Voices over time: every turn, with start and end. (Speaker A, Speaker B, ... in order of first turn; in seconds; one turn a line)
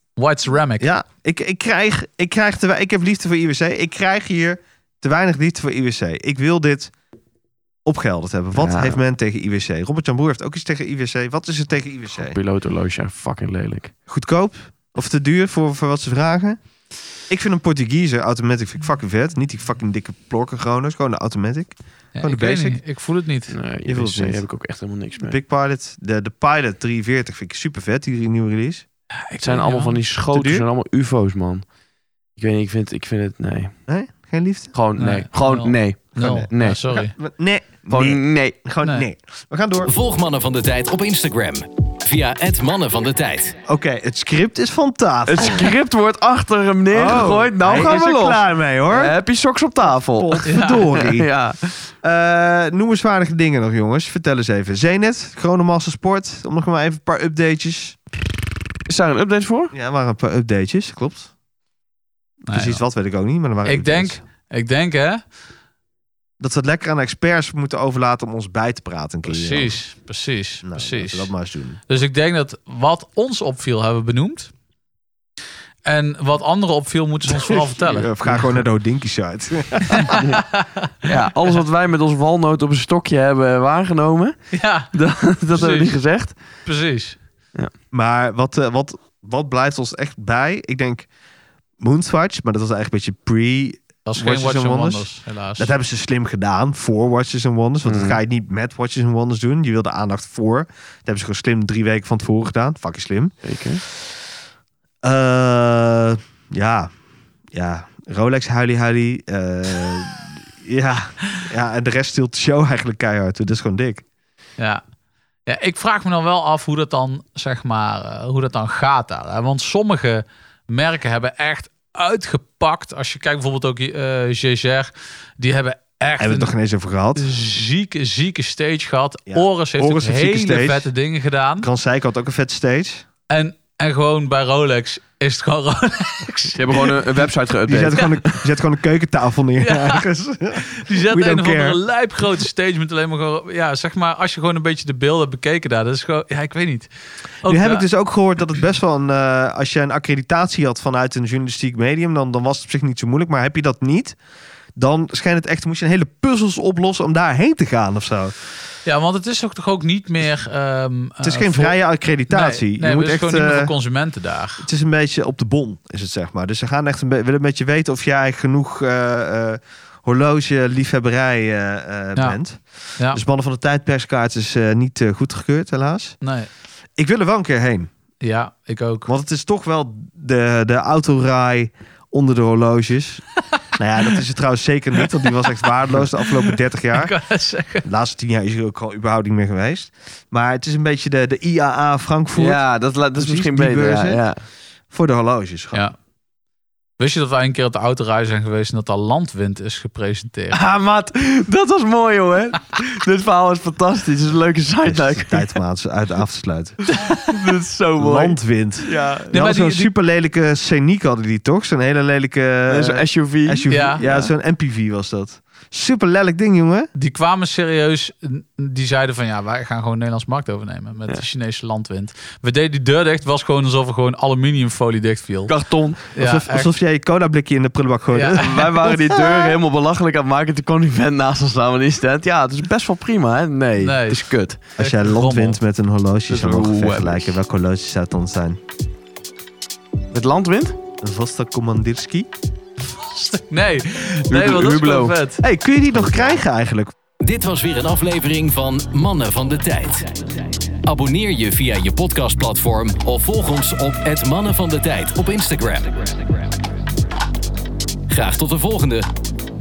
Speaker A: 0.1-0.9
Speaker B: 0.8-6.9
Speaker B: 7.8-12.3
Speaker C: 8.5-9.0
Speaker C: 12.1-13.9
Speaker B: 14.1-16.6
Speaker B: 17.3-22.8
Speaker A: 22.1-23.5
Speaker C: 23.5-25.3
Speaker B: 23.9-24.5
Speaker B: 25.2-28.8
Speaker A: 29.2-30.0
Speaker C: 29.4-31.6
Speaker B: 30.3-30.6
Speaker C: 32.4-33.7
Speaker B: 33.9-34.7
Speaker C: 34.7-36.8
Speaker A: 35.0-37.1
Speaker B: 36.2-39.9
Speaker C: 37.9-38.5
Speaker D: 39.8-43.6
Speaker B: 43.7-45.7
Speaker C: 45.2-51.8
Speaker B: 46.9-49.1
Speaker B: 50.1-51.3
Speaker A: 50.5-50.9
Speaker B: 52.0-58.0
Speaker C: 58.9-59.7
Speaker B: 59.7-61.3
Speaker A: 62.5-62.8
Speaker B: 62.5-64.2
Speaker A: 63.6-65.2
Speaker B: 66.4-69.8
Speaker A: 69.3-71.3
Speaker B: 70.6-71.8
Speaker A: 71.9-74.5
Speaker A: 75.8-78.1
Speaker B: 77.2-80.2
Speaker A: 79.9-81.1
Speaker C: 80.1-80.4
Speaker C: 81.0-84.3
Speaker A: 84.5-84.9
Speaker C: 84.9-86.3
Speaker A: 85.5-86.0
Speaker A: 86.6-87.2
Speaker B: 87.9-91.1
Speaker B: 91.8-103.3
Speaker A: 94.0-95.7
Speaker C: 97.8-98.2
Speaker C: 103.4-103.8
Speaker B: 105.0-106.9
Speaker B: 107.5-114.0
Speaker A: 114.6-114.8
Speaker A: 115.5-126.5
Speaker B: 126.2-127.3
Speaker A: 127.1-131.7
Speaker B: 129.3-130.9
Speaker B: 131.6-133.1
Speaker A: 133.3-137.0
Speaker C: 136.6-138.3
Speaker B: 137.7-141.8
Speaker A: 139.6-140.0
Speaker A: 140.7-146.9
Speaker A: 147.4-147.8
Speaker B: 147.5-154.2
Speaker B: 154.8-158.3
Speaker A: 158.8-164.7
Speaker B: 161.2-163.7
Speaker B: 164.6-176.2
Speaker A: 176.2-176.5
Speaker B: 176.9-177.9
Speaker A: 178.2-179.1
Speaker B: 179.1-187.2
Speaker A: 186.9-187.8
Speaker B: 187.8-194.2
Speaker C: 192.3-194.4
Speaker B: 194.9-195.9
Speaker A: 197.0-200.6
Speaker C: 200.5-205.5
Speaker B: 204.8-206.8
Speaker C: 206.9-209.3
Speaker B: 208.0-216.9
Speaker A: 209.3-209.9
Speaker C: 212.7-214.3
Speaker A: 213.7-214.0
Speaker A: 216.9-226.7
Speaker C: 225.5-226.0
Speaker B: 226.2-229.5
Speaker A: 228.1-228.4
Speaker C: 228.4-234.6
Speaker A: 233.8-235.6
Speaker B: 234.8-238.6
Speaker C: 236.3-237.4
Speaker C: 240.1-240.8
Speaker B: 241.0-242.3
Speaker A: 242.9-245.4
Speaker C: 244.3-245.2
Speaker B: 245.4-246.9
Speaker C: 245.9-246.4
Speaker D: 247.2-250.3
Speaker D: 250.8-256.3
Speaker D: 258.1-259.1